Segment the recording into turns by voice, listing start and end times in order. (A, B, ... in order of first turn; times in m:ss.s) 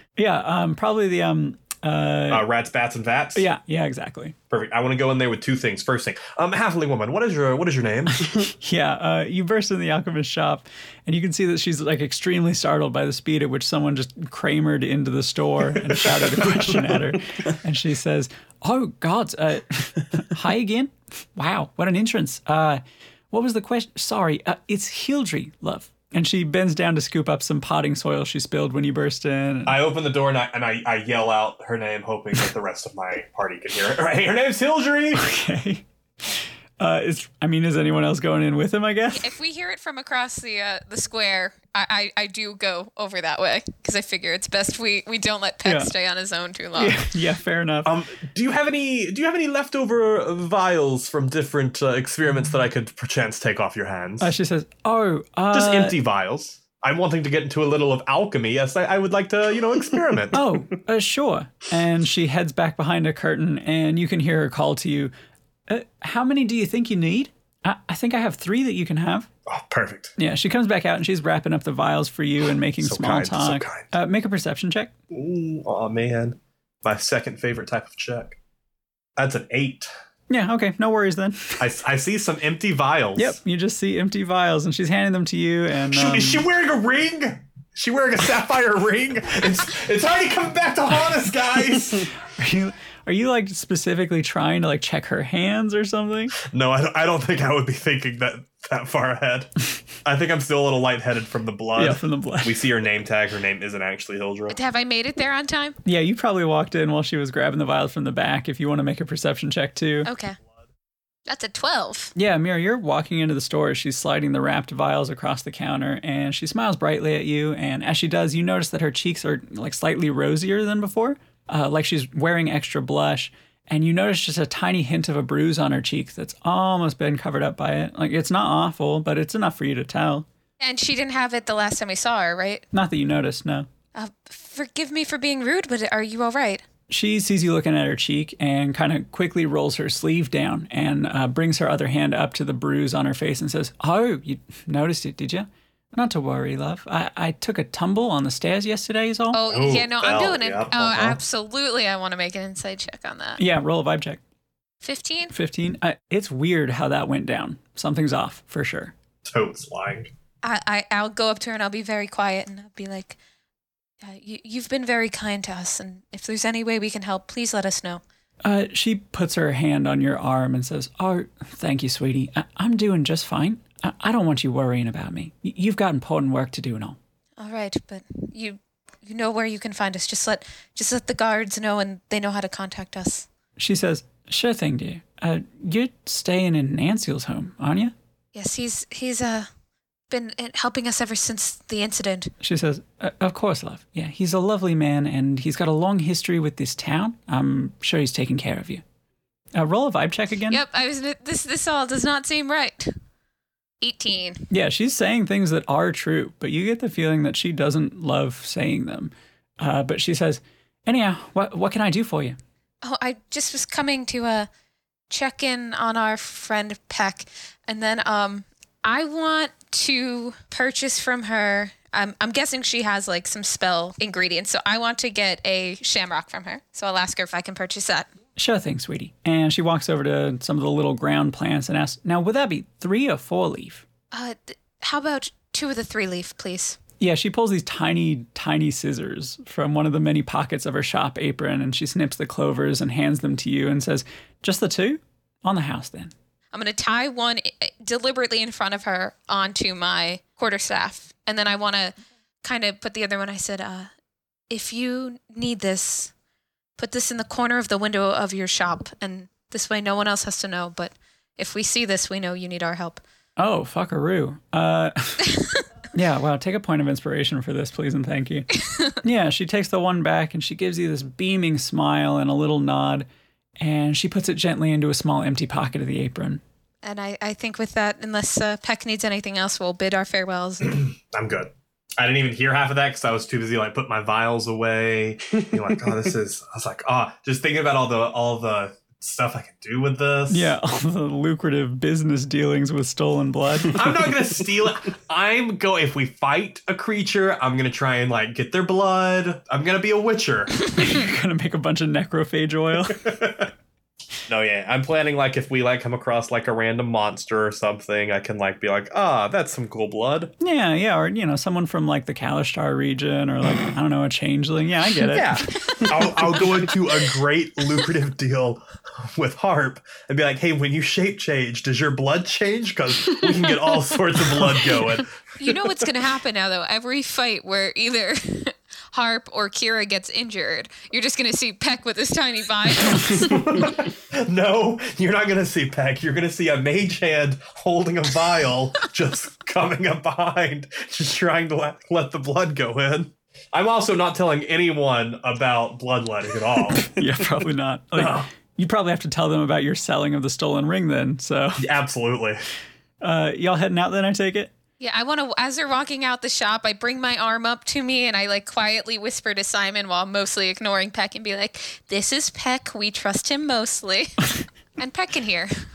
0:00.2-0:02.5 A
0:02.3-0:03.5 B
0:03.4-0:04.4 A
0:04.5-0:08.3 B
0:08.4-0:29.8 A
0:29.7-0:35.2 B
0:35.2-0:39.3 A
0:39.1-0:47.0 C
0:45.6-0:45.9 A
0:46.8-0:47.9 A
0:47.8-0:54.3 B
0:54.2-0:56.0 A
0:55.5-1:00.4 B
1:00.3-1:05.1 A
1:05.7-1:09.3 A
1:09.5-1:10.2 B
1:10.2-1:14.9 A
1:12.8-1:13.9 B
1:15.1-1:18.4 B
1:19.2-1:19.9 B
1:20.3-1:21.6 A
1:21.6-1:23.4 B
1:23.2-1:26.4 A
1:25.9-1:32.1 B
1:32.3-1:36.4 A
1:36.4-1:39.5 B
1:40.0-1:44.6 B
1:41.8-1:42.6 A
1:44.5-1:45.8 C
1:45.9-1:50.1 A
1:50.0-1:50.4 C
1:51.3-1:52.1 C
1:52.2-2:10.3 A
2:10.6-2:12.7 C
2:12.7-2:13.7 A
2:14.0-2:16.6 C
2:16.9-2:29.4 A
2:29.3-2:33.4 C
2:29.5-2:31.2 B
2:33.4-2:34.2 A
2:34.8-2:35.3 C
2:35.3-2:38.9 A
2:39.2-2:40.1 B
2:40.4-2:43.2 C
2:44.0-2:48.0 C
2:48.4-2:57.0 A
2:57.4-3:03.3 C
3:03.6-3:07.9 A
3:08.4-3:09.5 C
3:10.1-3:12.3 C
3:12.4-3:18.8 A
3:19.6-3:20.6 A
3:20.5-3:22.9 C
3:23.8-3:24.5 C
3:24.5-3:32.4 A
3:32.8-3:34.5 C
3:35.1-3:48.1 C
3:48.4-3:53.8 A
3:54.1-3:56.8 C
3:57.0-4:06.1 A
4:06.5-4:13.9 C
4:14.5-4:16.1 C
4:16.8-4:23.0 C
4:23.4-4:25.4 A
4:25.9-4:33.1 A
4:33.6-4:36.4 A
4:36.8-4:40.8 C
4:40.6-4:50.6 B
4:50.3-4:53.8 A
4:53.7-5:00.6 B
5:00.7-5:03.1 A
5:02.9-5:03.5 B
5:04.3-5:10.3 B
5:10.4-5:15.4 A
5:15.1-5:25.5 B
5:25.4-5:33.5 C
5:33.0-5:46.9 B
5:46.9-5:51.7 A
5:48.0-5:48.3 B
5:51.6-5:52.4 B
5:53.0-5:54.5 A
5:54.8-6:05.5 C